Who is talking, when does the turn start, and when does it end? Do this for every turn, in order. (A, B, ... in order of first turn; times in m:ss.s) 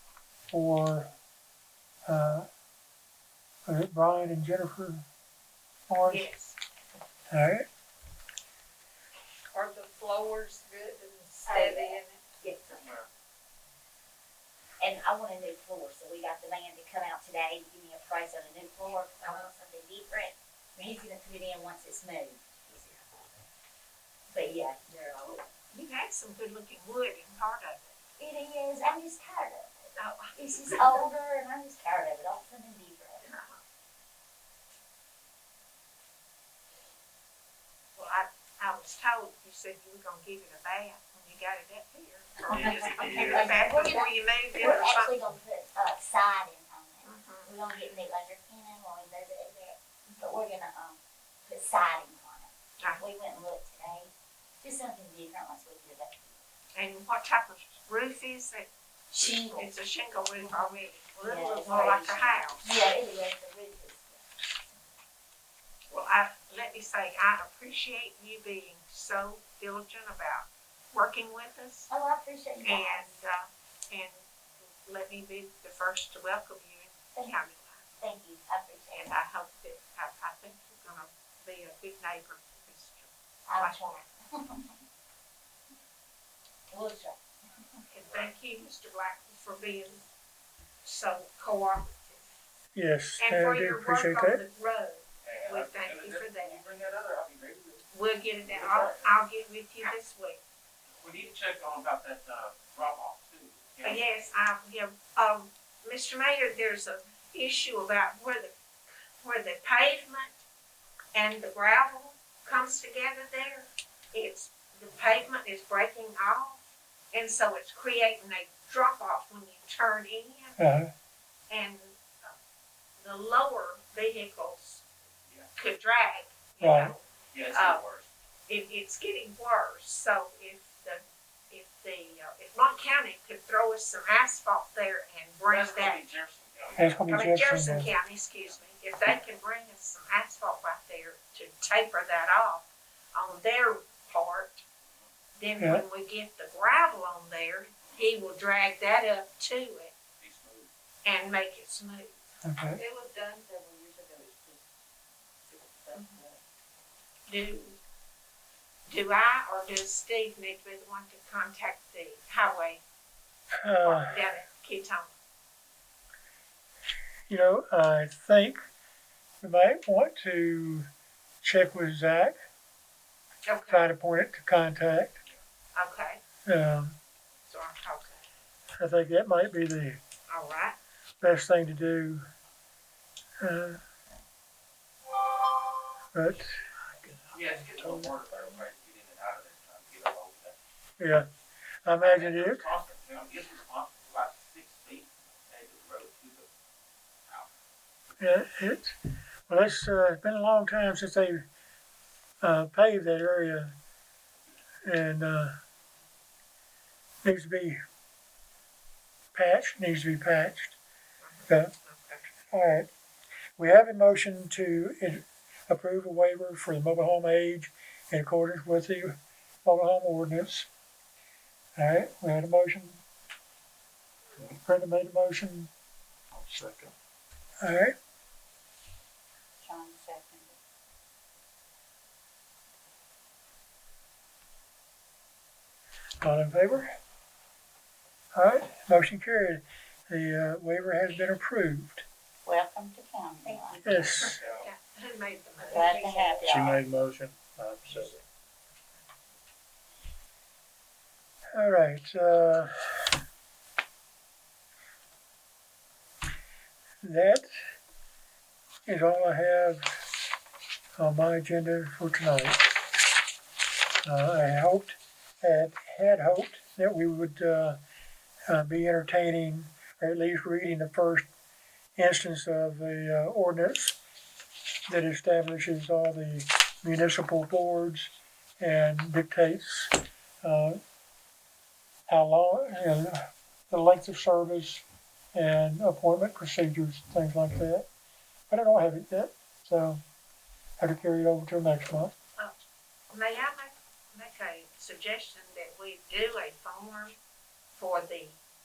0:00.5-0:01.1 A
0:02.1-0:02.5 A
0:03.7-0:05.0 A
0:05.9-0:06.3 A
0:06.0-0:06.6 B
0:07.3-0:07.6 A
0:09.6-0:12.0 B
0:11.5-0:13.0 C
0:14.8-0:23.4 C
0:24.3-0:25.5 C
0:25.7-0:28.0 B
0:28.2-0:33.2 C
0:30.0-0:31.1 B
0:33.2-0:33.6 B
0:38.0-0:45.2 B
0:42.5-0:54.1 C
0:42.5-0:43.6 D
0:47.0-0:47.5 B
0:54.6-0:56.4 C
0:56.7-1:02.6 B
0:59.2-0:59.7 D
1:01.2-1:04.3 C
1:05.9-1:11.9 B
1:11.9-1:13.0 C
1:12.6-1:17.8 B
1:18.0-1:19.2 C
1:18.9-1:24.1 B
1:23.5-1:24.7 C
1:26.7-1:27.2 C
1:27.8-1:30.1 B
1:30.8-1:32.2 B
1:32.8-1:34.4 A
1:33.2-1:36.6 B
1:35.2-1:37.9 D
1:37.9-1:40.4 B
1:38.4-1:39.1 D
1:41.0-1:44.0 D
1:43.8-1:48.5 B
1:49.2-1:50.4 B
1:51.1-1:56.6 B
1:57.1-2:00.6 B
2:00.6-2:00.9 A
2:01.5-2:02.3 B
2:03.0-2:04.8 B
2:05.6-2:07.8 B
2:06.6-2:07.0 A
2:07.3-2:08.1 D
2:08.5-2:16.0 B
2:15.5-2:17.3 D
2:16.8-2:17.9 A
2:17.1-2:24.6 B
2:25.4-2:29.9 B
2:30.2-2:30.7 D
2:31.0-2:32.1 B
2:32.4-2:32.8 A
2:32.8-2:34.6 E
2:35.5-2:36.4 E
2:37.3-2:37.8 B
2:38.9-2:42.8 B
2:43.6-2:44.2 A
2:43.8-2:45.1 B
2:47.3-2:48.6 A
2:49.4-2:50.9 A
2:51.4-2:52.4 A
2:53.5-2:53.9 B
2:53.7-2:55.2 A
2:55.7-2:56.2 B
2:56.5-2:57.0 A
2:57.5-2:58.2 B
2:58.8-3:00.0 A
3:00.3-3:00.8 B
3:01.2-3:02.2 A
3:03.4-3:03.8 A
3:06.1-3:06.6 A
3:07.3-3:08.1 F
3:07.3-3:10.6 D
3:11.0-3:11.3 A
3:11.8-3:12.7 A
3:12.0-3:16.5 D
3:18.2-3:19.0 A
3:19.5-3:21.4 A
3:22.4-3:23.7 A
3:24.8-3:25.6 A
3:27.2-3:27.8 A
3:29.3-3:30.8 A
3:31.2-3:32.3 B
3:31.5-3:31.7 A
3:32.5-3:32.9 A
3:33.6-3:40.7 A
3:41.8-3:43.0 A
3:44.6-3:45.7 A
3:46.3-3:46.9 F
3:47.6-3:48.0 A
3:49.6-3:50.5 C
3:56.2-3:57.0 A
3:58.3-4:02.0 A
4:02.4-4:04.3 C
4:03.5-4:03.8 B
4:03.8-4:04.4 A
4:04.4-4:04.7 D
4:04.5-4:06.1 B
4:05.7-4:06.8 C
4:05.9-4:06.6 E
4:06.5-4:08.2 F
4:11.6-4:13.0 A
4:17.0-4:17.5 A
4:18.8-4:19.9 A
4:21.0-4:22.6 A
4:24.0-4:27.8 A
4:28.5-4:31.3 A
4:32.0-4:34.0 A
4:34.9-4:40.8 A
4:42.1-4:44.8 A
4:45.3-4:47.9 A
4:48.5-4:50.0 A
4:50.8-4:52.1 A
4:53.1-4:57.2 B
4:57.8-4:58.4 B